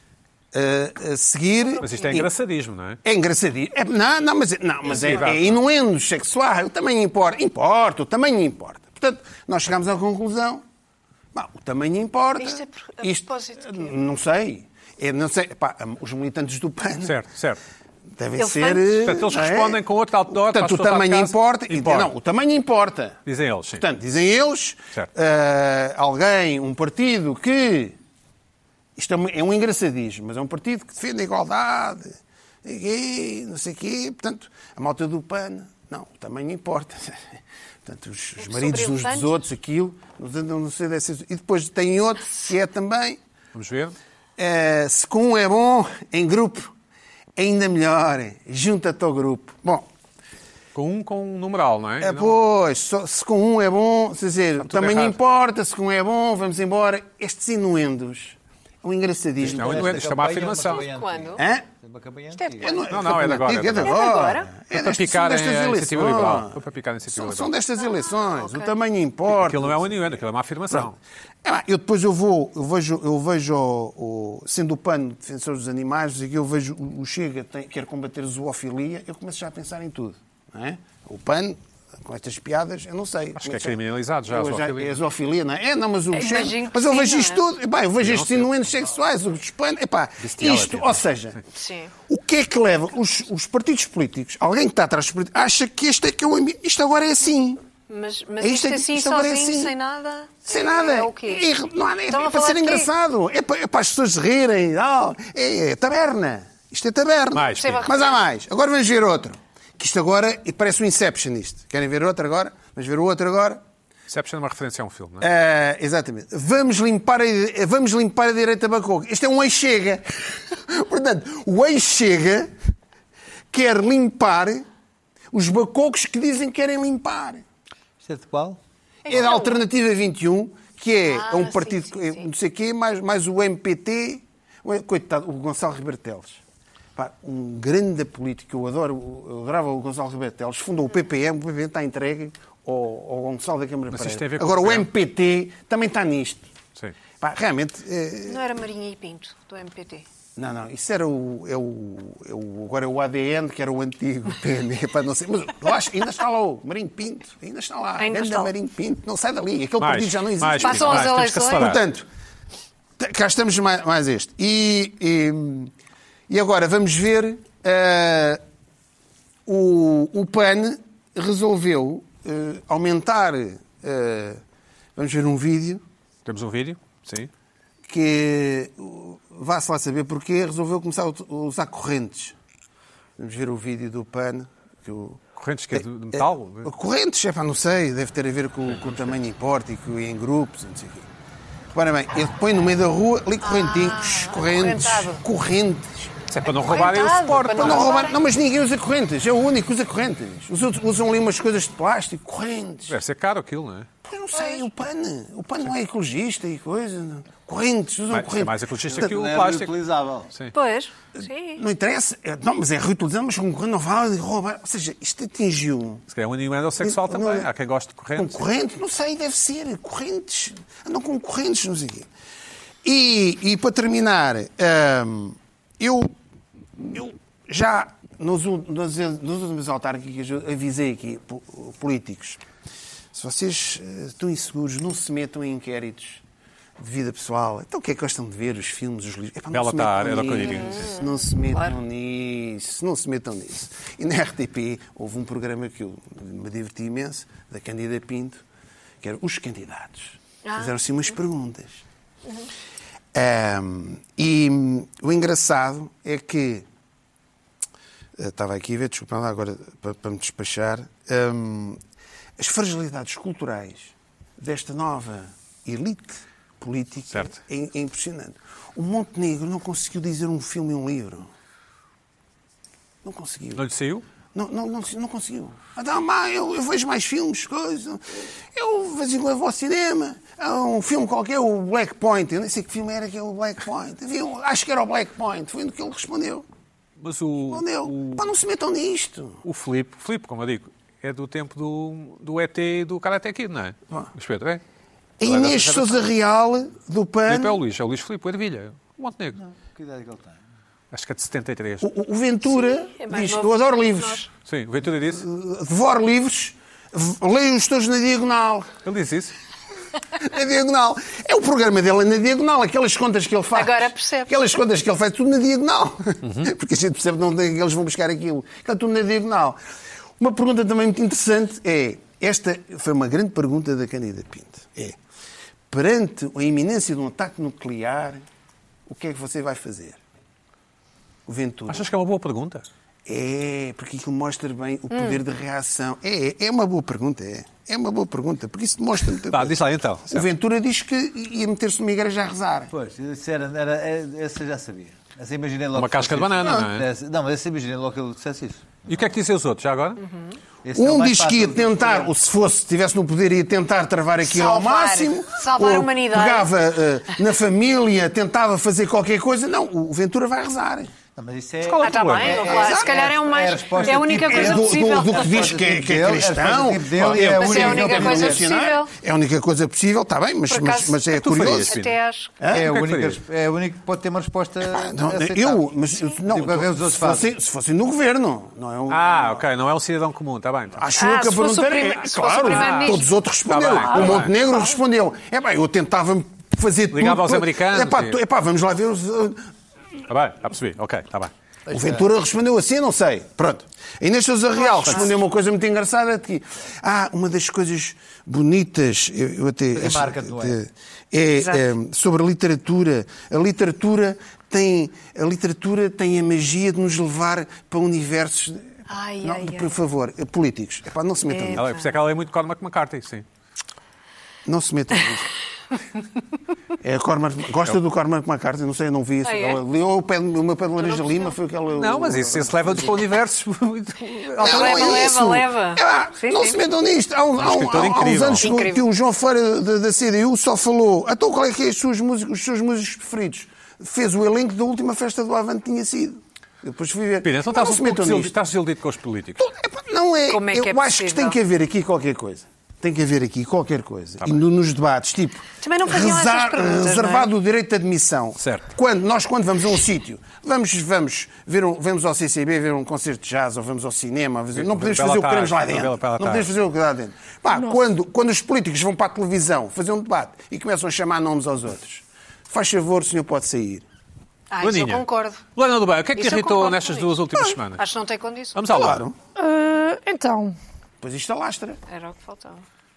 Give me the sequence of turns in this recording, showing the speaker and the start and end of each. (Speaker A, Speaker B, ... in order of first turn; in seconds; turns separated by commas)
Speaker A: 0.5-2.3, Speaker B: 1.6-2.2, Speaker C: 1.8-3.0, Speaker A: 3.0-10.6, Speaker C: 4.8-5.6, Speaker B: 4.9-5.2, Speaker A: 11.3-17.2, Speaker B: 12.4-13.9, Speaker C: 17.0-17.6, Speaker A: 18.1-23.2, Speaker B: 18.4-18.9, Speaker C: 19.0-22.1, Speaker C: 23.2-23.8, Speaker A: 23.8-27.9, Speaker A: 28.9-43.2, Speaker B: 38.4-39.5, Speaker C: 43.5-44.0, Speaker A: 44.4-46.7, Speaker A: 47.4-49.9, Speaker C: 50.7-52.4, Speaker A: 52.0-60.0, Speaker C: 54.6-55.2, Speaker D: 59.4-62.8, Speaker C: 59.4-60.8, Speaker B: 60.7-61.4, Speaker A: 61.4-61.6, Speaker B: 62.3-62.9, Speaker A: 62.6-66.6, Speaker C: 62.9-64.0, Speaker B: 63.8-64.5, Speaker C: 64.7-67.5, Speaker A: 67.1-69.9, Speaker B: 67.8-68.7, Speaker C: 69.3-71.0, Speaker A: 71.4-83.8, Speaker C: 83.3-85.0, Speaker A: 84.3-91.4, Speaker B: 86.1-87.5, Speaker C: 88.0-88.5, Speaker C: 90.2-91.0, Speaker B: 91.5-91.9, Speaker A: 92.1-97.6, Speaker B: 97.9-101.5, Speaker A: 98.4-99.7, Speaker A: 100.5-113.6, Speaker B: 102.1-102.9, Speaker C: 107.3-107.9, Speaker B: 107.6-108.2, Speaker C: 114.1-115.3, Speaker A: 115.2-122.5, Speaker A: 123.5-124.7, Speaker A: 125.3-127.4, Speaker D: 128.0-128.6, Speaker B: 129.1-129.6, Speaker A: 129.1-136.4, Speaker B: 131.1-132.3, Speaker A: 136.9-146.5, Speaker C: 143.9-144.9, Speaker A: 147.2-148.4, Speaker B: 148.3-150.1, Speaker A: 150.3-162.1, Speaker B: 158.0-158.5, Speaker C: 159.8-161.8, Speaker B: 160.6-161.8, Speaker A: 163.0-165.7, Speaker A: 166.3-168.4, Speaker A: 169.4-174.4, Speaker A: 174.9-175.8, Speaker C: 176.2-177.3, Speaker A: 177.8-182.3, Speaker A: 183.2-185.2, Speaker C: 185.3-186.7, Speaker A: 185.7-191.1, Speaker C: 188.8-189.1, Speaker A: 191.7-196.1, Speaker B: 193.4-195.2, Speaker C: 196.3-197.9, Speaker B: 196.4-198.2, Speaker A: 197.4-203.0, Speaker C: 202.9-203.9, Speaker A: 204.0-209.1, Speaker B: 204.3-204.7, Speaker C: 208.1-209.7, Speaker D: 208.8-210.3, Speaker B: 210.5-211.6, Speaker A: 211.6-216.0, Speaker C: 216.1-218.4, Speaker A: 216.8-217.5, Speaker A: 218.2-222.1, Speaker A: 222.8-226.1, Speaker A: 226.8-232.4, Speaker A: 233.1-236.2, Speaker A: 236.8-248.4, Speaker C: 239.5-240.9, Speaker B: 240.4-241.8, Speaker A: 249.0-251.8, Speaker B: 250.4-250.8, Speaker A: 253.1-256.6, Speaker A: 258.2-261.8, Speaker A: 262.4-271.3, Speaker A: 273.0-273.6, Speaker C: 273.6-274.0, Speaker A: 274.3-286.4, Speaker C: 287.0-288.2, Speaker A: 287.5-289.4, Speaker C: 289.4-294.6, Speaker A: 295.2-297.6, Speaker C: 295.2-296.1, Speaker C: 297.3-299.4, Speaker D: 299.3-300.4, Speaker C: 300.9-301.9, Speaker A: 301.8-304.3, Speaker B: 302.4-304.3, Speaker C: 304.4-305.2, Speaker A: 305.1-308.7, Speaker C: 308.8-309.3, Speaker A: 310.1-319.6, Speaker B: 313.5-314.3, Speaker C: 316.2-316.5, Speaker A: 320.2-325.0, Speaker A: 325.7-328.2, Speaker A: 328.9-330.0, Speaker A: 331.2-331.9, Speaker C: 331.7-332.6, Speaker A: 333.1-339.6, Speaker B: 334.9-335.2, Speaker C: 339.3-340.3, Speaker A: 340.1-342.7, Speaker D: 342.7-348.8, Speaker C: 345.7-346.9, Speaker A: 346.4-346.7, Speaker C: 348.9-350.0, Speaker B: 350.0-350.3, Speaker D: 350.6-352.1, Speaker A: 350.7-360.9, Speaker B: 354.2-356.5, Speaker D: 361.1-368.5, Speaker C: 361.7-362.4, Speaker B: 361.7-365.5, Speaker A: 362.4-363.1, Speaker A: 363.9-371.8, Speaker B: 367.1-368.9, Speaker B: 370.5-372.3, Speaker C: 371.2-372.0, Speaker A: 372.4-372.7, Speaker D: 372.5-377.3, Speaker C: 372.5-373.2, Speaker A: 374.7-379.4, Speaker C: 378.9-380.8, Speaker A: 380.8-389.4, Speaker B: 380.9-383.1, Speaker C: 382.5-384.3, Speaker E: 383.8-384.3, Speaker C: 386.9-388.2, Speaker C: 390.1-391.3, Speaker D: 391.7-392.1, Speaker A: 391.7-411.7, Speaker B: 394.6-395.1, Speaker D: 399.7-400.6, Speaker B: 401.4-401.7, Speaker B: 408.9-409.8, Speaker B: 411.3-411.8, Speaker C: 411.5-413.2, Speaker A: 414.4-415.3, Speaker A: 416.8-423.0, Speaker B: 419.2-419.6, Speaker B: 420.8-421.3, Speaker C: 421.7-425.2, Speaker A: 424.4-438.3, Speaker B: 424.4-426.6, Speaker C: 427.4-428.5, Speaker B: 428.4-428.9, Speaker C: 437.2-439.5, Speaker A: 439.4-463.8, Speaker B: 440.3-441.4, Speaker B: 445.6-447.3, Speaker C: 448.4-448.7, Speaker C: 454.5-456.5, Speaker E: 457.5-457.8, Speaker B: 464.5-465.4, Speaker C: 464.6-467.8, Speaker B: 466.1-467.2, Speaker B: 467.8-468.7, Speaker C: 468.5-469.1, Speaker A: 468.7-469.1, Speaker E: 469.3-470.6, Speaker A: 471.0-471.8, Speaker B: 471.9-472.6